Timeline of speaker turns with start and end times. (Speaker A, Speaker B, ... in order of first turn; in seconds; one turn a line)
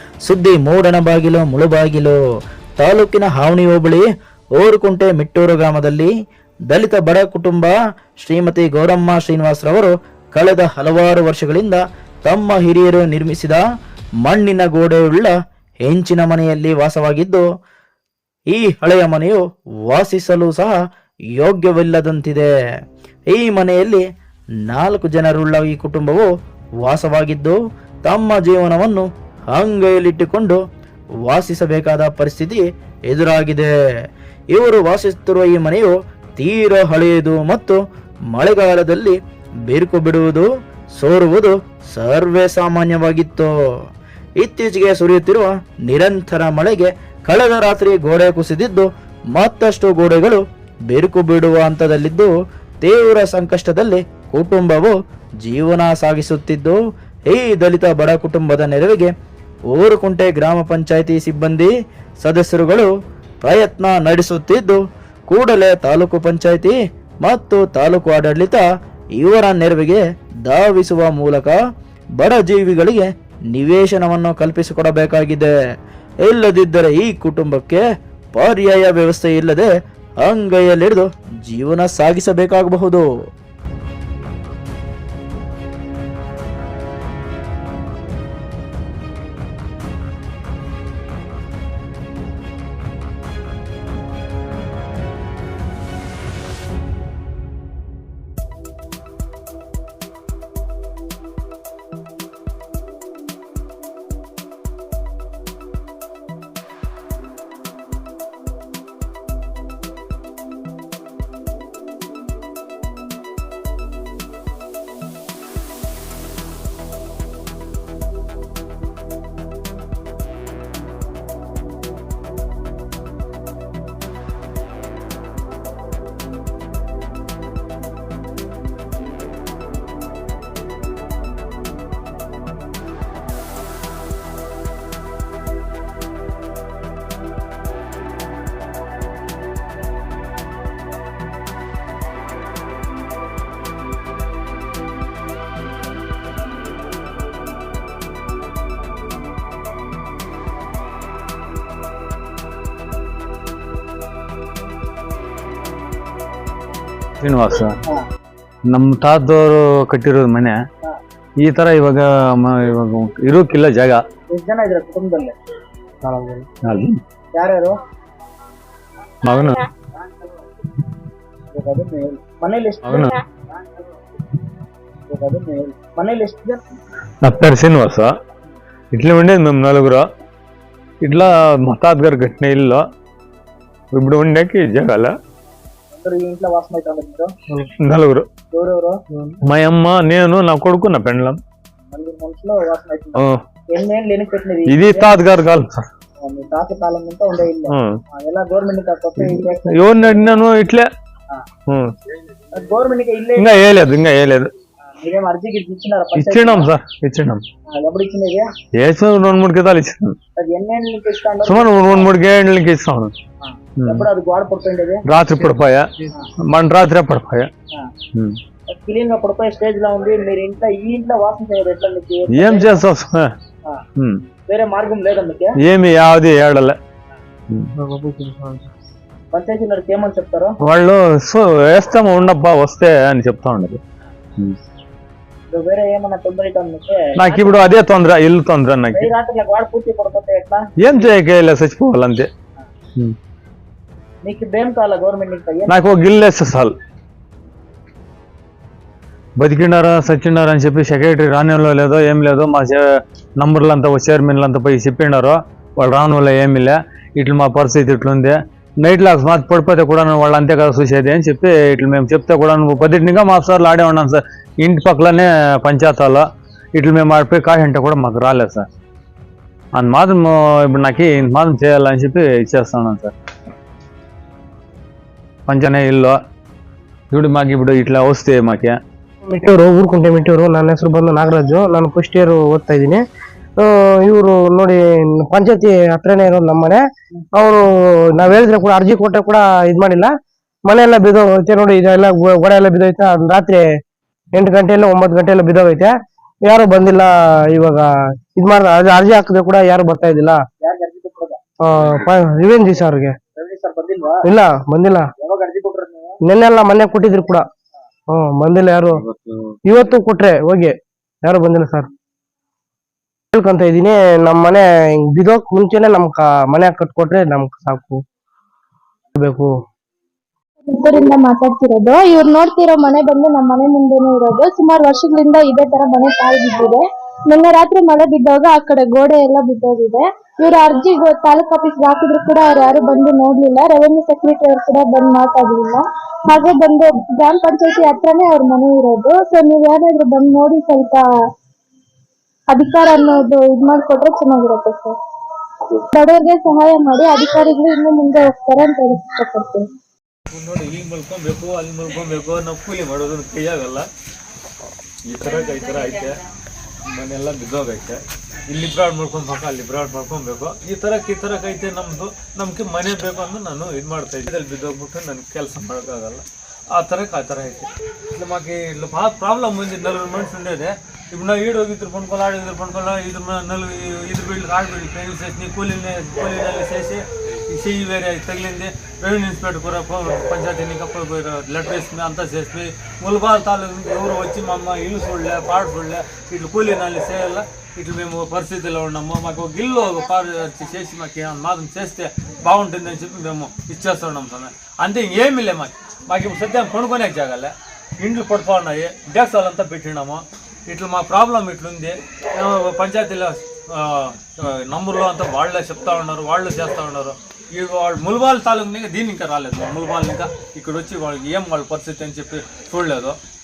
Speaker A: 0.3-2.2
Speaker A: 2.8-4.0
Speaker A: 4.6-6.1
Speaker A: 6.7-7.7
Speaker A: 8.2-13.6
Speaker A: 14.2-15.3
Speaker A: 15.8-17.4
Speaker A: 18.5-20.8
Speaker A: 21.4-22.5
Speaker A: 23.3-24.0
Speaker A: 24.7-26.3
Speaker A: 26.8-30.6
Speaker A: 31.3-33.7
Speaker A: 34.5-37.8
Speaker A: 38.3-39.1
Speaker A: 39.7-40.5
Speaker A: 41.0-43.5
Speaker A: 44.4-52.3
Speaker A: 52.8-54.9
Speaker A: 55.4-56.8
Speaker A: 57.3-59.1
Speaker A: 59.7-61.7
Speaker A: 62.2-62.9
Speaker A: 63.4-64.8
Speaker A: 65.3-68.6
Speaker A: 69.2-71.5
Speaker A: 72.2-75.5
Speaker A: 76.2-77.8
Speaker A: 78.3-79.7
Speaker A: 80.2-83.0
Speaker B: 157.2-157.8
Speaker B: 158.7-160.6
Speaker B: 161.4-164.0
Speaker C: 164.3-165.3
Speaker D: 166.0-166.4
Speaker B: 166.6-167.0
Speaker C: 167.3-167.8
Speaker B: 169.2-169.6
Speaker C: 169.9-170.3
Speaker C: 171.5-173.9
Speaker B: 172.8-173.1
Speaker C: 175.1-176.6
Speaker B: 177.2-178.1
Speaker B: 178.9-180.1
Speaker B: 181.0-182.8
Speaker B: 183.9-185.1
Speaker C: 185.9-187.3
Speaker B: 187.8-188.3
Speaker C: 188.5-189.0
Speaker B: 189.4-191.4
Speaker C: 191.9-195.2
Speaker B: 193.2-193.4
Speaker B: 194.7-195.9
Speaker C: 196.2-200.3
Speaker B: 197.7-198.0
Speaker B: 199.2-200.9
Speaker B: 201.7-201.9
Speaker C: 202.5-203.5
Speaker B: 203.4-204.5
Speaker C: 205.0-206.7
Speaker B: 206.1-207.4
Speaker C: 207.7-208.5
Speaker B: 208.8-210.2
Speaker C: 210.3-212.1
Speaker B: 211.4-213.1
Speaker C: 213.4-215.0
Speaker B: 213.8-214.1
Speaker B: 215.1-215.9
Speaker B: 216.5-217.5
Speaker C: 218.7-222.8
Speaker B: 222.3-223.3
Speaker C: 224.5-225.6
Speaker B: 225.6-226.8
Speaker D: 227.8-228.7
Speaker C: 229.3-230.6
Speaker B: 230.6-233.8
Speaker C: 235.5-237.7
Speaker B: 237.2-239.1
Speaker C: 238.9-240.7
Speaker B: 240.8-242.3
Speaker C: 244.2-245.9
Speaker B: 245.7-246.7
Speaker B: 249.4-252.8
Speaker B: 253.4-268.7
Speaker B: 269.7-273.1
Speaker B: 275.5-276.2
Speaker B: 277.1-278.8
Speaker D: 279.2-283.0
Speaker D: 283.6-286.8
Speaker D: 287.3-290.1
Speaker D: 290.6-293.7
Speaker D: 294.3-300.4
Speaker C: 300.6-301.4
Speaker D: 301.6-303.1
Speaker C: 303.4-304.2
Speaker D: 304.2-305.1
Speaker C: 305.2-306.2
Speaker D: 306.2-307.4
Speaker D: 308.1-309.0
Speaker B: 309.0-309.6
Speaker D: 309.6-311.9
Speaker D: 313.3-318.0
Speaker D: 319.1-319.5
Speaker E: 320.7-341.0
Speaker E: 342.5-345.0
Speaker E: 345.7-349.6
Speaker B: 350.3-353.9
Speaker B: 355.1-356.2
Speaker B: 356.9-413.2